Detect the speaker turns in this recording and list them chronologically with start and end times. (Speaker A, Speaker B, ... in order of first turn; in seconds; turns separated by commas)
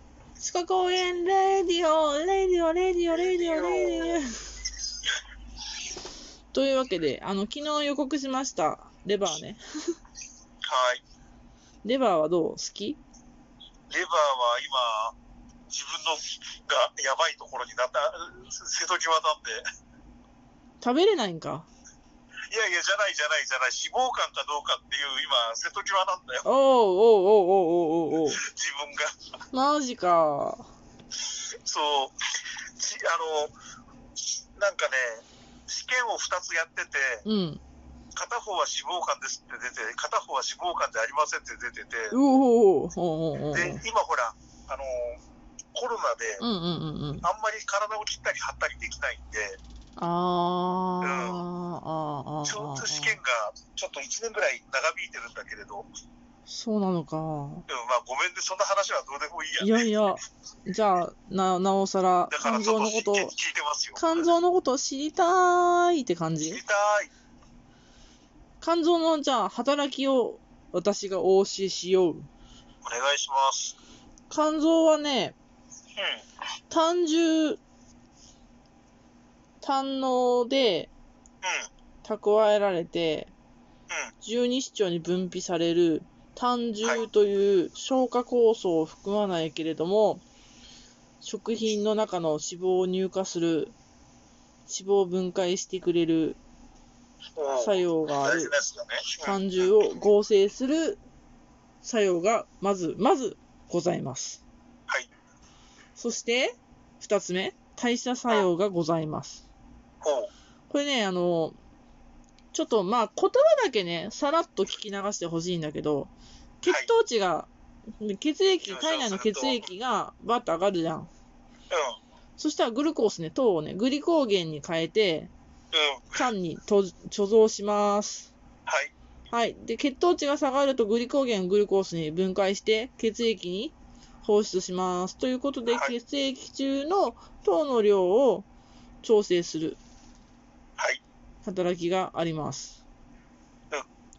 Speaker A: 0.4-4.3, Speaker B: 3.1-4.2, Speaker A: 6.5-9.6, Speaker B: 10.7-11.0, Speaker A: 11.8-13.0, Speaker B: 13.9-15.2, Speaker B: 15.7-19.6, Speaker A: 20.8-21.7, Speaker B: 22.5-26.4, Speaker A: 26.4-28.4, Speaker B: 28.3-29.1, Speaker A: 29.5-30.7, Speaker B: 31.6-32.1, Speaker B: 32.8-33.5, Speaker B: 34.2-37.2, Speaker A: 37.2-37.6, Speaker B: 38.1-42.2, Speaker A: 42.1-43.8, Speaker B: 43.5-45.2, Speaker B: 45.7-46.4, Speaker A: 46.4-47.3, Speaker B: 47.2-49.6, Speaker A: 50.0-53.2, Speaker B: 51.0-51.5, Speaker B: 52.5-55.9, Speaker A: 56.5-57.6, Speaker B: 57.7-59.8, Speaker A: 59.6-63.3, Speaker B: 62.3-64.2, Speaker A: 64.0-66.6, Speaker B: 66.4-67.1, Speaker A: 68.6-72.3, Speaker B: 72.8-73.8, Speaker A: 74.3-75.3, Speaker B: 76.0-76.2, Speaker A: 76.7-77.6, Speaker A: 79.6-80.9, Speaker B: 81.4-81.7, Speaker A: 82.0-83.3, Speaker A: 84.2-90.2, Speaker A: 91.2-93.7, Speaker A: 94.7-96.4, Speaker B: 97.3-99.7, Speaker A: 97.6-98.5, Speaker A: 99.2-101.0, Speaker A: 101.8-104.4, Speaker A: 106.0-109.4, Speaker B: 110.0-110.3, Speaker A: 110.7-111.5, Speaker A: 112.5-121.1, Speaker B: 118.7-119.7, Speaker B: 121.7-122.0, Speaker A: 122.4-125.3, Speaker B: 125.7-126.2, Speaker A: 126.1-128.3, Speaker B: 128.7-128.9, Speaker A: 129.3-138.5, Speaker A: 139.0-139.8, Speaker A: 141.4-142.8